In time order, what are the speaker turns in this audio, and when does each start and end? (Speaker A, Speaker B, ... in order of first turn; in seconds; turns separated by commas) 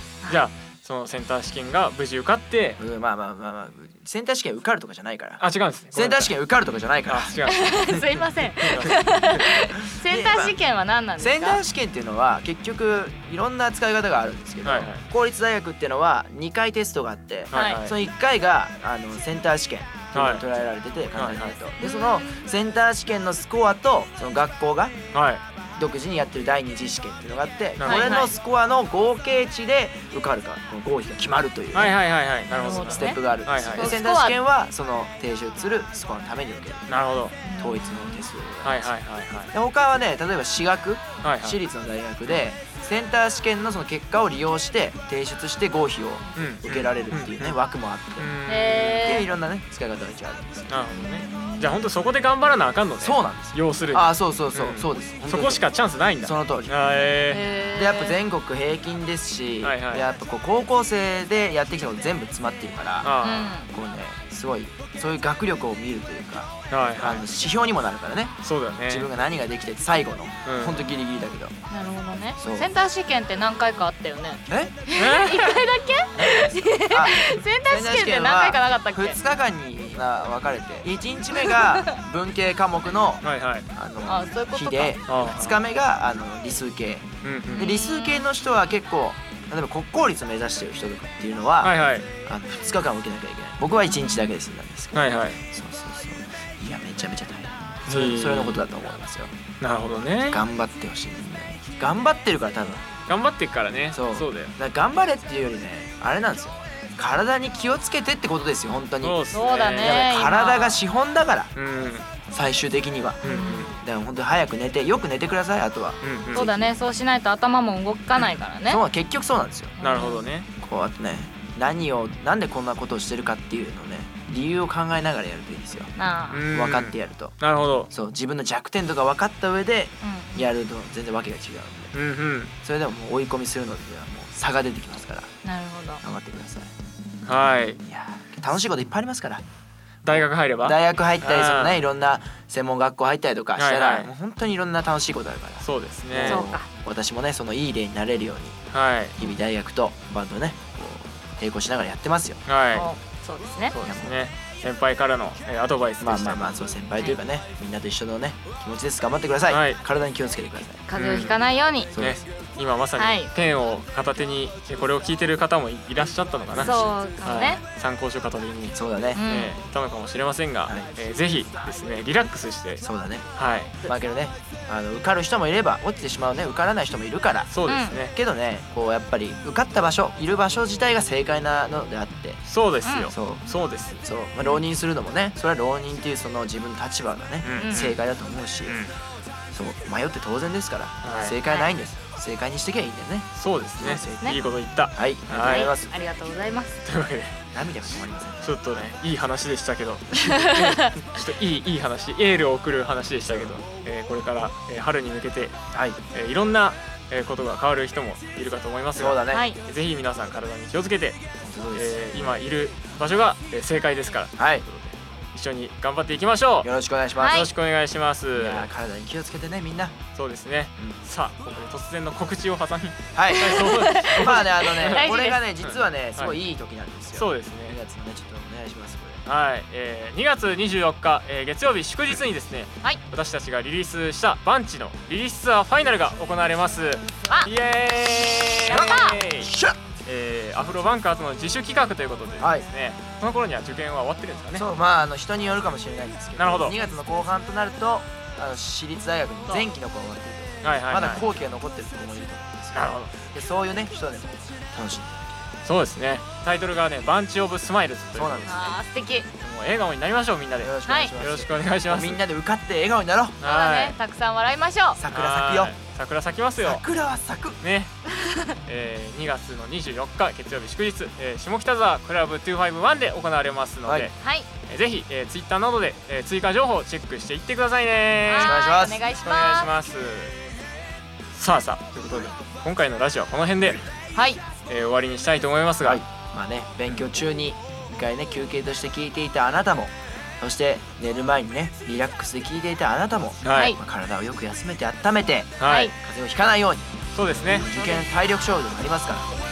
Speaker A: 0.3-2.8, Speaker B: 2.8-10.6, Speaker A: 5.4-6.3, Speaker A: 7.1-8.0, Speaker C: 7.5-11.6, Speaker A: 8.7-9.0, Speaker B: 11.2-24.9, Speaker A: 14.6-15.1, Speaker A: 17.5-18.0, Speaker C: 17.5-17.8, Speaker A: 20.1-20.4, Speaker A: 21.1-21.6, Speaker C: 21.8-22.4, Speaker A: 25.1-25.4, Speaker B: 25.8-32.0, Speaker A: 27.8-28.2, Speaker C: 27.8-28.3, Speaker A: 31.7-34.0, Speaker C: 32.5-34.4, Speaker B: 32.7-37.0, Speaker A: 36.9-37.4, Speaker C: 37.4-38.3, Speaker B: 37.6-38.9, Speaker A: 38.6-39.5, Speaker B: 39.5-48.3, Speaker A: 41.2-41.6, Speaker A: 46.4-47.6, Speaker A: 48.2-49.2, Speaker C: 48.5-49.3, Speaker B: 48.8-50.8, Speaker A: 50.7-57.4, Speaker C: 50.9-51.8, Speaker B: 53.0-55.7, Speaker B: 56.2-56.8, Speaker C: 57.3-58.2, Speaker B: 57.7-63.1, Speaker A: 59.6-60.0, Speaker A: 63.0-63.6, Speaker C: 63.2-63.7, Speaker B: 63.7-68.4, Speaker A: 66.7-67.2, Speaker A: 68.4-69.1, Speaker B: 68.9-71.5, Speaker A: 70.5-70.8, Speaker C: 71.7-79.2, Speaker B: 72.4-72.7, Speaker B: 74.5-74.8, Speaker A: 75.0-75.5, Speaker B: 76.1-99.3, Speaker C: 81.5-82.0, Speaker A: 83.2-83.7, Speaker C: 84.0-85.0, Speaker A: 85.1-85.6, Speaker A: 87.2-87.6, Speaker C: 87.6-88.2, Speaker A: 91.6-92.1, Speaker A: 94.9-95.4, Speaker A: 97.9-98.6, Speaker A: 99.6-100.4, Speaker B: 100.3-102.8, Speaker A: 103.1-104.5, Speaker B: 103.9-109.2, Speaker A: 109.0-110.1, Speaker C: 109.3-110.8, Speaker B: 109.8-111.5, Speaker A: 111.5-112.1, Speaker B: 112.3-116.8, Speaker A: 113.2-113.7, Speaker C: 113.2-113.7, Speaker A: 116.0-116.5, Speaker C: 116.3-118.8, Speaker B: 118.7-119.8, Speaker C: 119.8-120.2, Speaker A: 119.8-120.5, Speaker B: 120.6-125.9, Speaker C: 126.0-126.5, Speaker A: 126.3-127.9, Speaker B: 126.5-127.3, Speaker B: 127.9-131.9, Speaker C: 130.0-130.5, Speaker A: 131.9-132.5, Speaker B: 132.6-135.3, Speaker C: 135.4-136.0, Speaker B: 136.0-136.7, Speaker A: 137.2-137.8, Speaker B: 137.8-139.4, Speaker A: 140.0-141.8, Speaker B: 140.1-148.6, Speaker A: 143.6-144.1, Speaker A: 145.6-146.5, Speaker C: 146.2-146.7, Speaker A: 148.7-149.2, Speaker B: 149.2-152.4, Speaker A: 152.5-152.9, Speaker C: 152.7-153.8, Speaker A: 153.7-156.5, Speaker B: 153.8-154.2, Speaker B: 156.0-160.9, Speaker A: 159.5-159.8, Speaker C: 160.9-161.9, Speaker A: 160.9-161.4, Speaker B: 161.9-162.2, Speaker A: 161.9-172.8, Speaker C: 163.0-163.3, Speaker B: 166.5-167.0, Speaker C: 166.6-167.6, Speaker B: 168.7-169.2, Speaker C: 169.1-169.6, Speaker B: 172.8-173.2, Speaker A: 173.4-173.8, Speaker B: 173.8-177.6, Speaker A: 177.5-178.1, Speaker C: 177.7-178.0, Speaker B: 178.1-182.4, Speaker A: 182.5-184.0, Speaker C: 182.8-183.1, Speaker B: 183.1-183.5, Speaker B: 184.0-188.8, Speaker A: 187.4-188.0, Speaker C: 187.6-187.9, Speaker A: 188.7-188.9, Speaker B: 189.5-194.4, Speaker A: 191.0-191.4, Speaker C: 191.4-191.7, Speaker A: 193.3-195.7, Speaker C: 193.8-194.4, Speaker B: 194.9-195.9, Speaker C: 195.3-196.8, Speaker A: 196.8-197.4, Speaker B: 197.5-198.9, Speaker A: 198.4-205.6, Speaker C: 200.2-200.9, Speaker B: 203.2-203.6, Speaker B: 205.7-206.0, Speaker A: 206.1-211.2, Speaker B: 208.9-209.4, Speaker C: 209.3-209.6, Speaker B: 211.4-212.4, Speaker A: 211.7-216.7, Speaker B: 214.4-214.6, Speaker B: 216.6-217.4, Speaker C: 217.2-217.5, Speaker A: 217.3-218.7, Speaker B: 218.3-220.0, Speaker A: 220.2-225.1, Speaker B: 223.1-229.2, Speaker C: 223.4-225.4, Speaker A: 225.6-226.4, Speaker A: 227.1-227.8, Speaker A: 229.2-239.5, Speaker C: 238.6-239.2, Speaker B: 238.7-239.8, Speaker A: 240.1-244.7, Speaker B: 242.4-242.7, Speaker B: 244.5-255.1, Speaker A: 246.4-246.8, Speaker A: 250.6-251.2, Speaker A: 252.7-253.1, Speaker A: 255.7-258.5, Speaker B: 258.1-258.8, Speaker C: 258.4-259.3, Speaker A: 259.4-262.2, Speaker B: 260.6-263.4, Speaker C: 260.9-261.1, Speaker A: 263.4-264.0, Speaker C: 263.4-265.0, Speaker B: 264.9-265.7, Speaker A: 265.1-266.8, Speaker B: 266.6-267.6, Speaker A: 267.6-267.9, Speaker C: 268.2-268.5, Speaker A: 268.7-274.1, Speaker B: 273.9-274.1, Speaker C: 274.2-274.5, Speaker A: 274.7-278.6, Speaker C: 278.2-279.7, Speaker B: 278.4-279.0, Speaker A: 279.2-280.3, Speaker A: 281.4-283.9, Speaker B: 282.0-282.3, Speaker C: 284.1-284.4, Speaker A: 284.7-286.0, Speaker B: 285.8-299.3, Speaker A: 293.4-293.8, Speaker C: 293.5-293.8, Speaker A: 295.6-295.9, Speaker C: 295.6-295.9, Speaker A: 297.1-297.7, Speaker C: 297.7-298.0